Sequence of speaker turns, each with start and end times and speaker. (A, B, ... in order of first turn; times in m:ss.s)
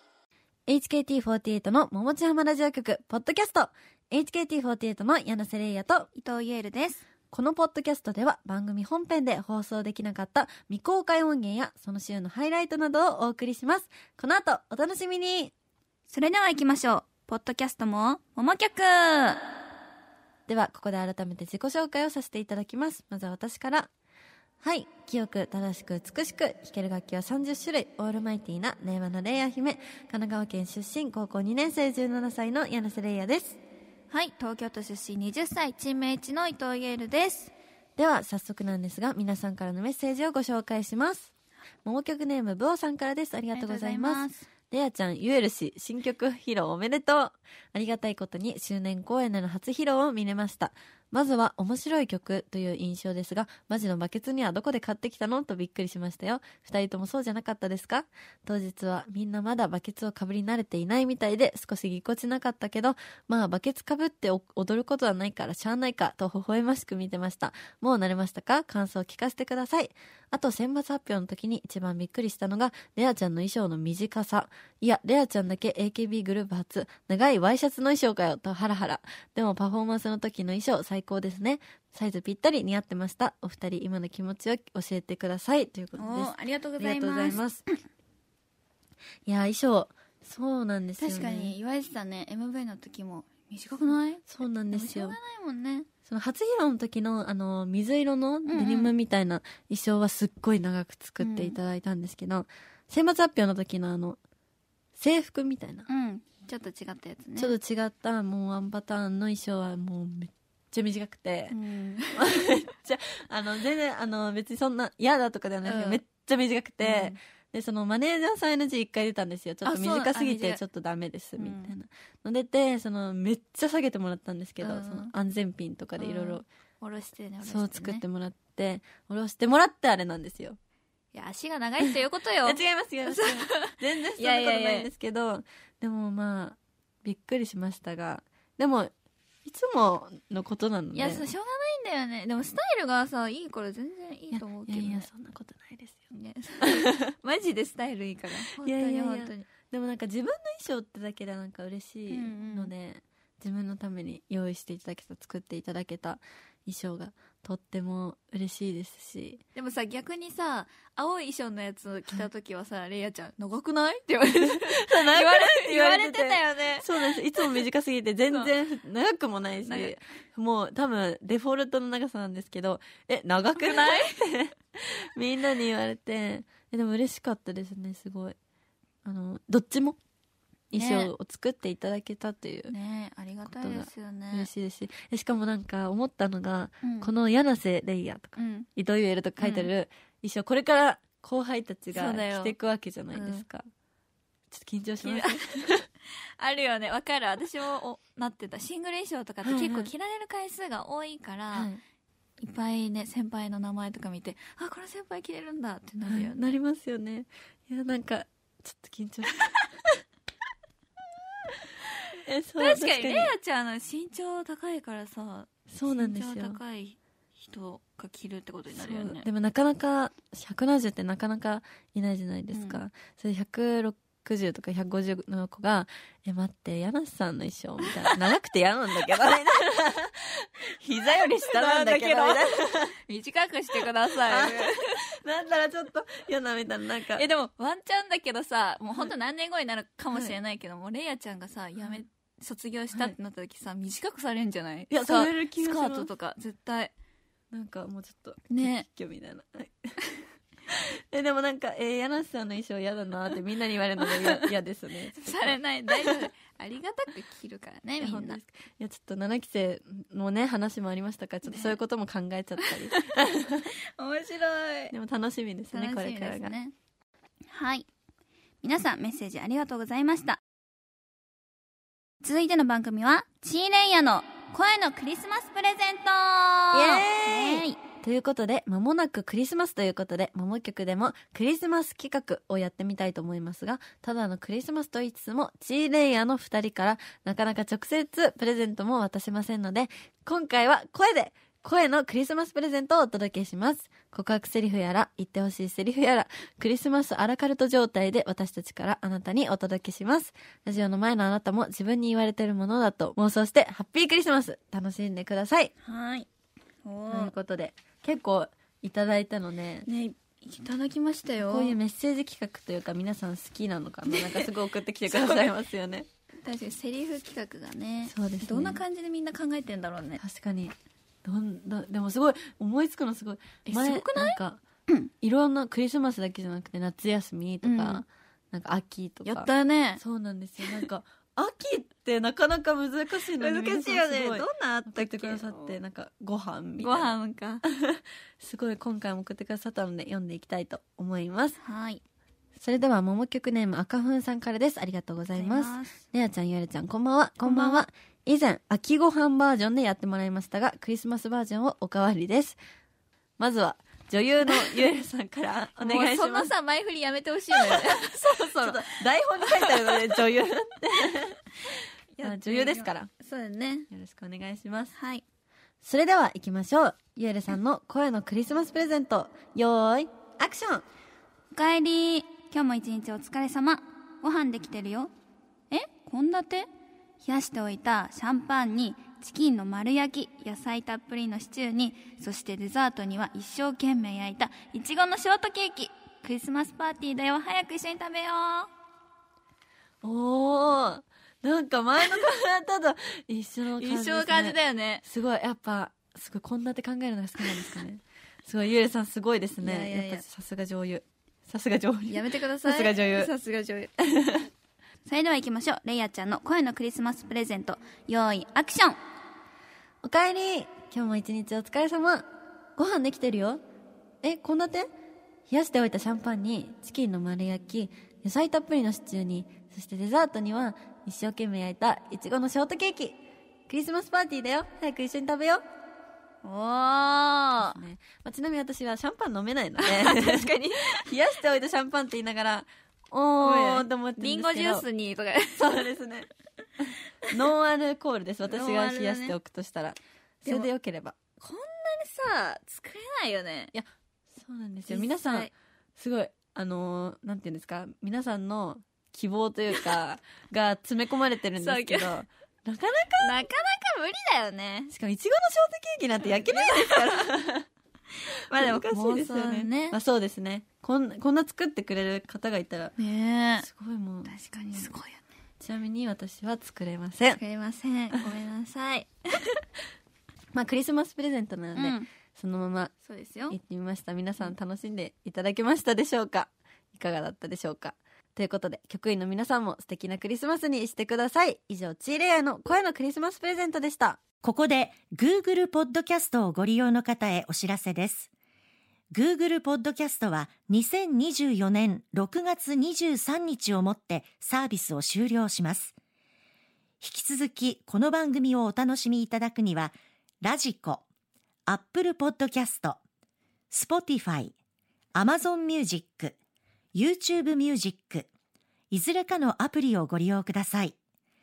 0:00.7-0:06.1 A
0:06.1-0:07.0 B
0:07.3-0:15.5 A
0:16.1-0:19.4 B
0:20.5-0:23.9 A
0:24.6-0:33.6 A
0:34.1-0:37.5 B
0:38.0-0:41.3 A
0:41.8-1:27.6 A
0:43.5-0:44.5 B
1:26.0-1:27.8 B
1:29.2-1:31.6 A
1:31.0-1:35.9 B
1:34.2-1:35.2 A
1:36.0-1:44.2 A
1:38.4-1:38.9 B
1:41.2-1:41.6 B
1:45.0-1:45.9 A
1:45.9-1:47.5 B
1:47.4-1:51.6 A
1:51.5-1:52.4 B
1:52.1-2:06.4 A
1:55.6-1:56.0 B
1:56.8-1:57.2 B
1:59.6-2:00.6 B
2:01.4-2:01.7 B
2:04.6-2:05.1 B
2:06.0-2:08.0 B
2:07.4-2:10.6 A
2:11.1-2:14.9 B
2:12.4-2:18.9 A
2:19.4-2:21.3 A
2:20.9-2:25.1 B
2:24.3-2:26.0 A
2:26.1-2:29.5 B
2:26.6-2:27.0 A
2:28.6-2:39.4 A
2:32.1-2:32.7 B
2:39.5-2:47.6 B
2:44.4-2:58.4 A
2:49.6-2:49.9 B
2:53.6-2:54.2 B
2:59.0-3:00.0 A
3:00.7-3:02.7 A
3:00.7-3:01.1 B
3:02.7-3:04.5 B
3:03.4-3:13.7 A
3:06.8-3:07.1 B
3:08.4-3:08.7 B
3:09.4-3:09.7 B
3:11.9-3:12.5 B
3:13.1-3:13.4 B
3:14.5-3:15.8 A
3:15.0-3:15.4 B
3:16.4-3:21.7 B
3:19.4-3:19.9 A
3:21.5-3:21.8 A
3:22.4-3:26.5 B
3:26.0-3:29.5 A
3:32.2-3:33.3 A
3:32.6-3:39.2 B
3:35.7-3:36.6 A
3:38.7-3:52.9 A
3:42.5-3:42.8 B
3:50.9-3:52.4 B
3:53.1-3:54.7 B
3:54.3-3:57.2 A
3:57.1-4:06.9 B
4:00.1-4:00.4 A
4:04.9-4:06.1 A
4:07.5-4:09.7 A
4:08.5-4:08.8 B
4:10.7-4:16.2 A
4:15.1-4:18.4 B
4:18.0-4:23.7 A
4:21.5-4:21.8 B
4:24.0-4:24.9 B
4:24.9-4:26.5 A
4:25.7-4:26.7 B
4:27.5-4:27.9 B
4:28.6-4:30.4 B
4:32.2-4:37.8 B
4:36.7-5:05.7 A
5:05.8-5:06.3 B
5:06.8-5:07.3 B
5:07.1-5:09.9 A
5:09.8-5:11.8 B
5:11.4-5:16.0 A
5:14.1-5:14.4 B
5:15.1-5:15.5 B
5:16.4-5:20.2 B
5:18.0-5:18.8 A
5:20.2-5:24.6 A
5:23.6-5:24.4 B
5:25.2-5:37.2 A
5:27.6-5:28.0 B
5:29.2-5:30.0 B
5:33.3-5:35.7 B
5:36.8-5:37.6 B
5:37.7-5:41.6 A
5:41.6-5:42.0 B
5:42.6-5:52.6 A
5:45.3-5:46.0 B
5:47.4-5:47.8 B
5:53.4-5:56.5 A
5:54.4-5:54.8 B
5:55.8-6:00.0 B
5:57.5-6:01.4 A
6:02.1-6:03.9 B
6:02.2-6:03.1 A
6:03.9-6:04.9 A
6:04.9-6:05.2 B
6:05.8-6:10.8 A
6:11.5-6:15.1 B
6:15.7-6:16.7 B
6:17.2-6:28.7 B
6:30.0-6:43.3 A
6:33.8-6:35.0 B
6:39.6-6:40.2 B
6:42.0-6:43.9 B
6:45.0-6:49.0 B
6:50.0-6:52.2 A
6:52.8-6:53.6 A
6:54.2-6:54.9 A
6:55.5-7:05.6 A
7:06.4-7:07.8 B
7:07.6-7:14.8 A
7:09.8-7:11.1 B
7:13.4-7:15.7 B
7:15.5-7:16.3 A
7:16.8-7:21.2 A
7:18.4-7:19.3 B
7:20.4-7:20.7 B
7:21.4-7:23.7 B
7:23.7-7:33.4 A
7:24.9-7:25.5 B
7:31.6-7:32.2 B
7:33.2-7:34.9 B
7:34.9-7:37.6 A
7:36.3-7:37.2 B
7:38.4-7:40.0 B
7:38.5-7:42.9 A
7:43.0-7:43.6 B
7:43.6-7:44.9 A
7:44.2-7:45.2 B
7:45.6-7:47.4 A
7:47.3-7:49.4 B
7:50.5-7:52.9 A
7:51.8-7:52.1 B
7:53.0-7:53.6 B
7:53.5-8:04.2 A
8:04.4-8:08.3 C
8:09.1-8:15.9 C
8:17.0-8:21.0 C
8:21.7-8:23.0 C
8:23.7-8:24.5 C
8:25.1-8:26.4 C
8:26.9-8:28.3 C
8:28.9-8:31.0 C